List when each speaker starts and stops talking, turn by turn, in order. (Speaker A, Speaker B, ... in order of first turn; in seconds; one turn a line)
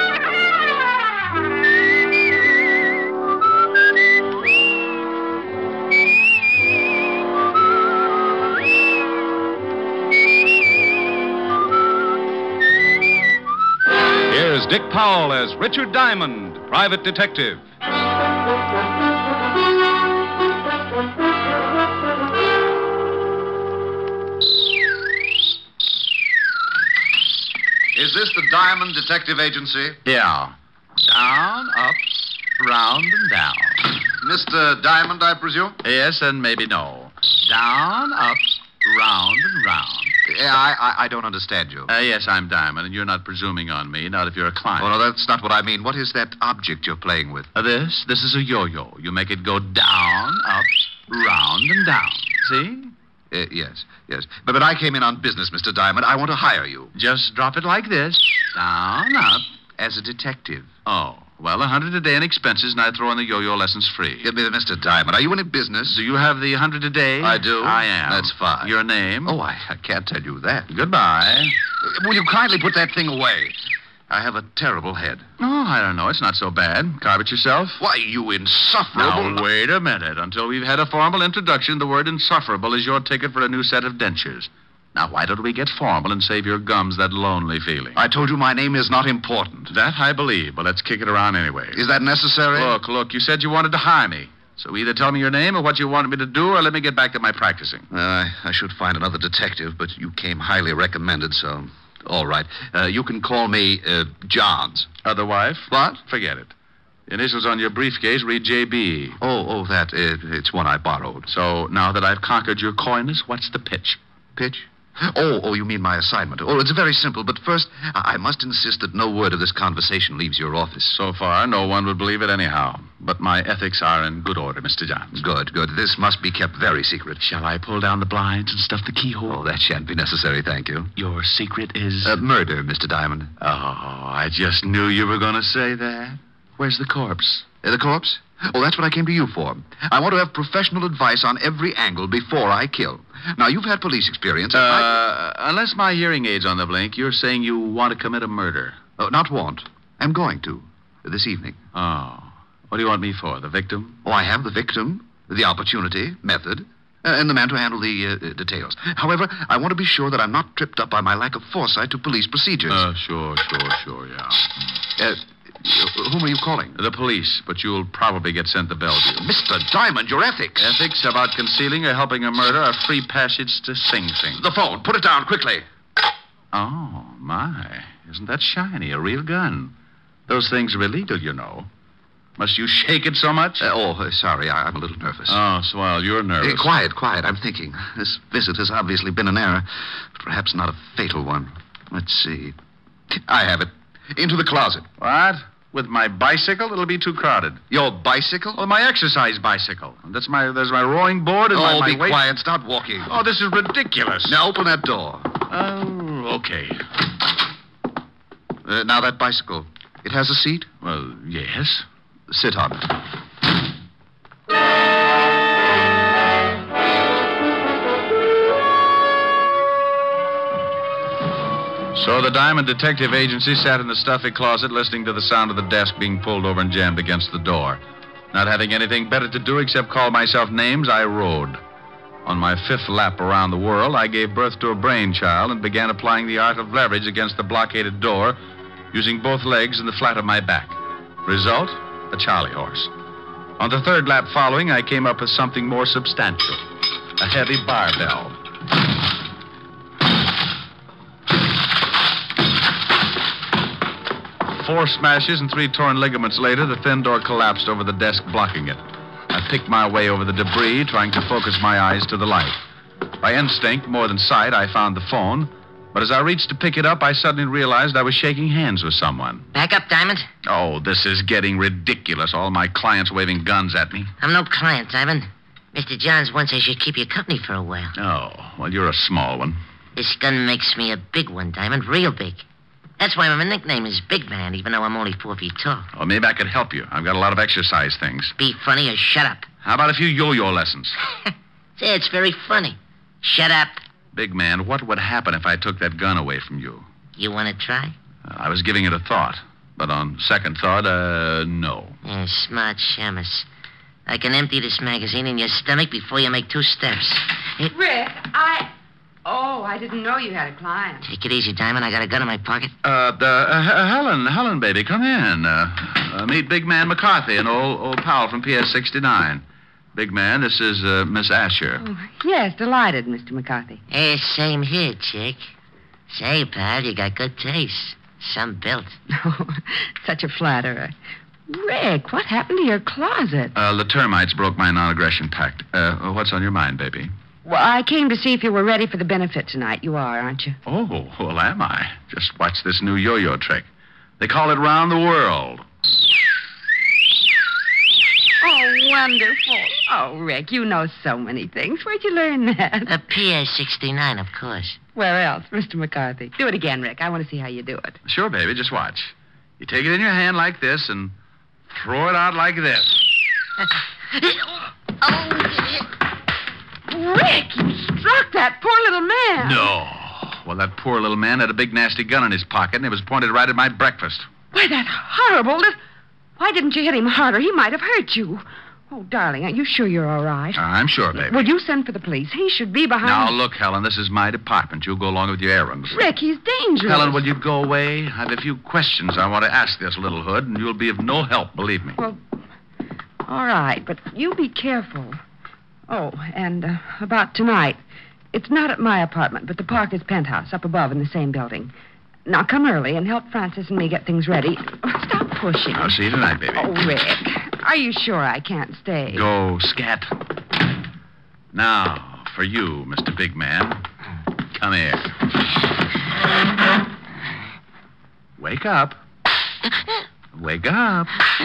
Speaker A: 14.3-17.6
Speaker B: 27.9-30.0
Speaker C: 30.1-33.8
Speaker B: 34.2-35.8
Speaker C: 35.8-40.1
Speaker B: 40.3-41.9
Speaker C: 41.9-44.9
Speaker B: 44.8-47.5
Speaker C: 47.5-52.9
Speaker B: 53.3-56.9
Speaker C: 56.9-59.5
Speaker B: 59.8-60.7
Speaker C: 60.9-64.3
Speaker B: 64.2-66.0
Speaker C: 65.9-69.4
Speaker B: 67.2-68.7
Speaker B: 69.2-70.7
Speaker C: 70.7-71.5
Speaker B: 71.8-73.6
Speaker B: 74.1-75.3
Speaker C: 75.4-77.8
Speaker B: 77.8-79.4
Speaker C: 78.9-88.0
Speaker B: 88.0-89.7
Speaker C: 89.7-91.8
Speaker B: 91.7-92.8
Speaker C: 92.5-97.9
Speaker B: 97.9-104.9
Speaker C: 105.0-106.5
Speaker B: 105.7-106.0
Speaker C: 107.1-109.2
Speaker B: 109.2-111.3
Speaker C: 111.3-114.0
Speaker B: 114.4-121.0
Speaker C: 120.9-125.2
Speaker B: 125.1-127.2
Speaker C: 127.2-129.4
Speaker B: 129.3-130.9
Speaker C: 131.0-132.2
Speaker B: 132.0-133.3
Speaker C: 133.4-137.5
Speaker B: 137.6-145.0
Speaker C: 144.5-148.8
Speaker B: 149.0-151.6
Speaker C: 151.7-154.0
Speaker B: 154.1-162.8
Speaker C: 162.7-164.5
Speaker B: 165.0-166.8
Speaker C: 166.8-169.2
Speaker B: 169.2-170.7
Speaker C: 170.6-174.4
Speaker B: 174.3-175.7
Speaker C: 176.5-179.7
Speaker C: 180.3-181.7
Speaker C: 182.4-183.7
Speaker B: 183.6-185.4
Speaker C: 185.3-186.7
Speaker B: 186.4-192.6
Speaker B: 193.1-194.9
Speaker C: 195.0-197.6
Speaker B: 197.7-198.6
Speaker C: 198.6-202.2
Speaker B: 201.5-203.1
Speaker C: 203.1-204.4
Speaker B: 204.2-205.4
Speaker C: 205.5-206.8
Speaker B: 208.7-210.7
Speaker C: 210.8-211.8
Speaker B: 212.3-212.9
Speaker C: 221.9-227.8
Speaker C: 228.3-231.6
Speaker C: 232.3-238.4
Speaker C: 238.9-242.9
Speaker C: 243.6-246.6
Speaker C: 247.2-248.4
Speaker C: 254.5-262.6
Speaker C: 263.2-269.5
Speaker D: 269.5-270.3
Speaker C: 270.4-274.1
Speaker D: 274.2-277.9
Speaker C: 278.0-279.6
Speaker D: 280.0-282.4
Speaker D: 283.0-285.9
Speaker C: 285.9-288.3
Speaker D: 288.4-289.5
Speaker C: 289.6-291.0
Speaker D: 291.8-293.8
Speaker C: 294.1-296.9
Speaker D: 297.2-297.9
Speaker C: 298.3-302.0
Speaker D: 302.0-303.5
Speaker D: 304.1-307.7
Speaker E: 307.7-308.7
Speaker E: 309.2-311.1
Speaker D: 311.0-312.7
Speaker C: 312.8-319.4
Speaker C: 319.9-321.8
Speaker E: 321.8-323.8
Speaker D: 323.9-325.5
Speaker D: 326.1-328.9
Speaker E: 329.1-330.9
Speaker E: 331.5-333.5
Speaker C: 333.6-337.1
Speaker E: 337.4-340.6
Speaker C: 340.7-343.7
Speaker C: 344.2-345.6
Speaker E: 348.4-352.9
Speaker D: 352.9-354.8
Speaker E: 354.9-358.0
Speaker C: 358.1-361.1
Speaker C: 361.7-363.0
Speaker D: 365.2-365.7
Speaker E: 366.9-369.7
Speaker C: 369.4-374.3
Speaker E: 374.5-375.8
Speaker E: 376.4-380.6
Speaker C: 380.6-381.5
Speaker E: 381.1-383.4
Speaker C: 383.0-386.0
Speaker E: 385.9-387.2
Speaker C: 386.9-392.0
Speaker E: 393.3-395.2
Speaker E: 395.9-397.8
Speaker E: 398.3-401.7
Speaker E: 402.3-406.0
Speaker C: 405.7-406.7
Speaker E: 406.6-409.3
Speaker C: 409.1-410.1
Speaker C: 411.5-413.8
Speaker C: 414.6-415.1
Speaker C: 418.4-419.0
Speaker C: 420.4-421.1